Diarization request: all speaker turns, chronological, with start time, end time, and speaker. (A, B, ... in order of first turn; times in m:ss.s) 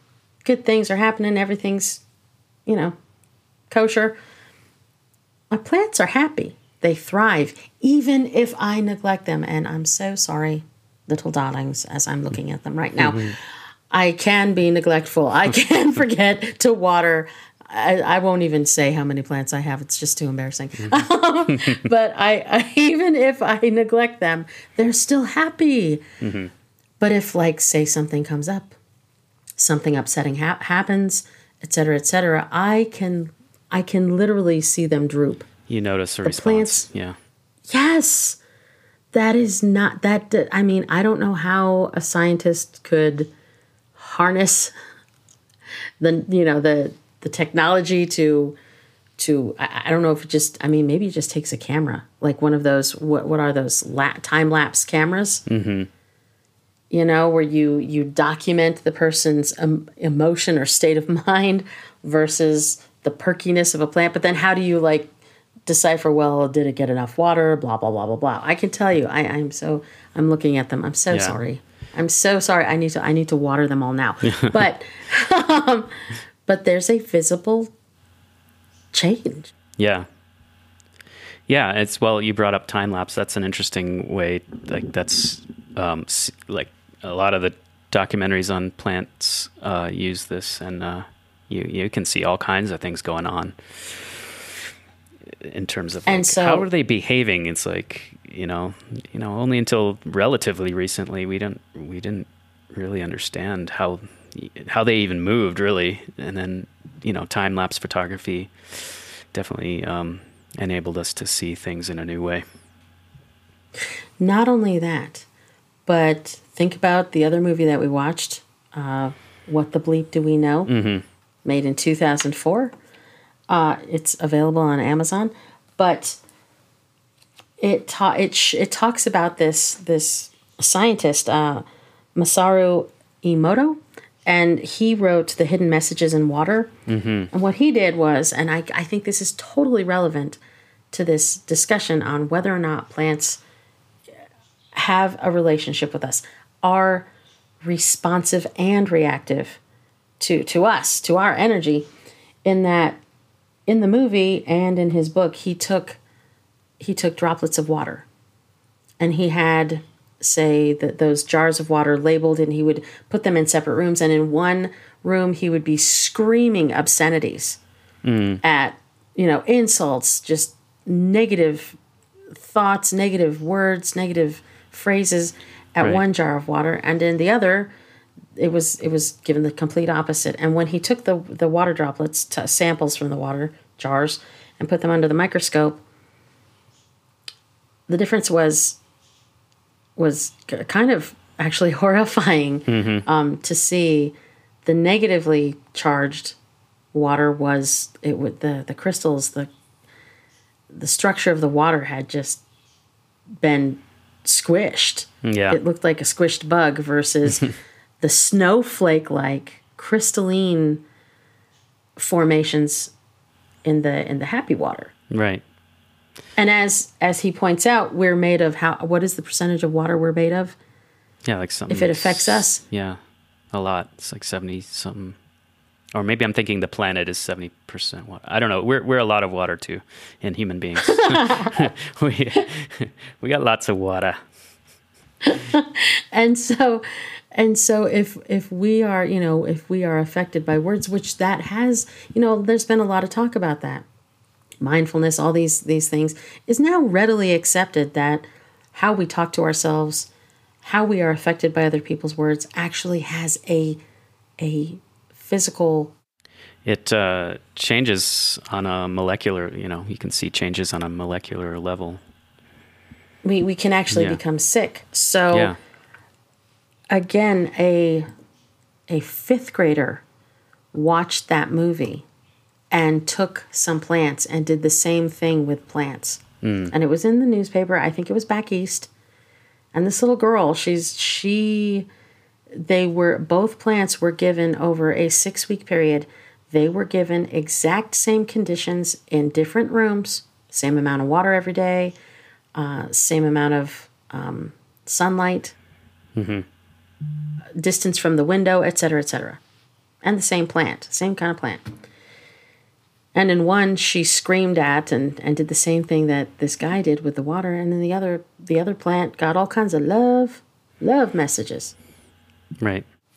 0:00.4-0:02.0 A
0:02.7-0:03.0 A
0:03.7-0:04.2 A
0:05.5-0:26.0 A
0:13.0-0:13.4 B
0:21.6-0:21.9 B
0:26.2-0:26.5 B
0:27.0-0:28.7 A
0:29.6-0:35.5 A
0:35.7-0:37.2 B
0:36.2-0:36.9 A
0:37.7-0:38.4 A
0:39.1-0:43.3 A
0:44.0-0:44.7 A
0:46.0-0:48.6 A
0:49.2-0:55.4 A
0:55.5-0:55.9 B
0:56.9-1:05.1 A
1:05.7-1:15.9 A
1:11.1-1:11.4 B
1:14.3-1:14.6 B
1:16.5-1:17.7 A
1:18.9-1:19.5 A
1:19.8-1:20.1 B
1:21.5-1:34.4 B
1:35.4-1:52.4 B
1:36.1-1:36.6 A
1:54.2-1:55.3 A
1:55.9-2:00.7 A
2:00.7-2:01.0 B
2:01.4-2:02.7 A
2:03.5-2:06.2 A
2:07.6-2:11.6 A
2:12.2-2:16.7 A
2:16.9-2:17.3 B
2:17.3-2:20.4 A
2:20.9-2:23.4 A
2:24.8-2:27.1 A
2:27.6-2:29.6 A
2:30.2-2:31.9 A
2:32.4-2:33.0 A
2:33.7-2:36.0 A
2:36.8-2:38.1 A
2:39.0-2:47.6 A
2:48.0-2:48.4 B
2:48.4-2:51.8 A
2:52.4-2:57.7 A
2:58.4-3:05.8 A
3:07.9-3:08.8 A
3:10.0-3:16.4 A
3:12.7-3:13.0 B
3:16.9-3:19.5 A
3:20.7-3:22.4 A
3:23.4-3:27.5 A
3:25.2-3:25.6 B
3:28.0-3:30.8 A
3:32.0-3:32.9 A
3:33.6-3:34.9 A
3:35.1-3:35.4 B
3:36.4-3:40.6 A
3:41.2-3:43.0 B
3:41.7-3:42.6 A
3:43.5-3:45.2 B
3:46.0-3:54.2 B
3:50.9-3:51.6 A
3:55.2-4:03.8 A
4:04.6-4:10.1 A
4:10.6-4:13.8 A
4:14.4-4:16.0 A
4:16.6-4:22.0 B
4:23.2-4:25.5 A
4:23.9-4:24.2 B
4:25.3-4:25.6 B
4:26.9-4:28.1 A
4:28.9-4:30.0 A
4:30.7-4:32.0 A
4:32.7-4:38.9 A
4:36.4-4:36.7 B
4:39.7-4:41.9 A
4:42.5-4:52.0 A
4:52.6-4:55.6 A
4:56.2-4:56.5 B
4:57.6-4:59.4 A
5:00.0-5:01.6 A
5:03.2-5:11.8 A
5:12.6-5:12.9 B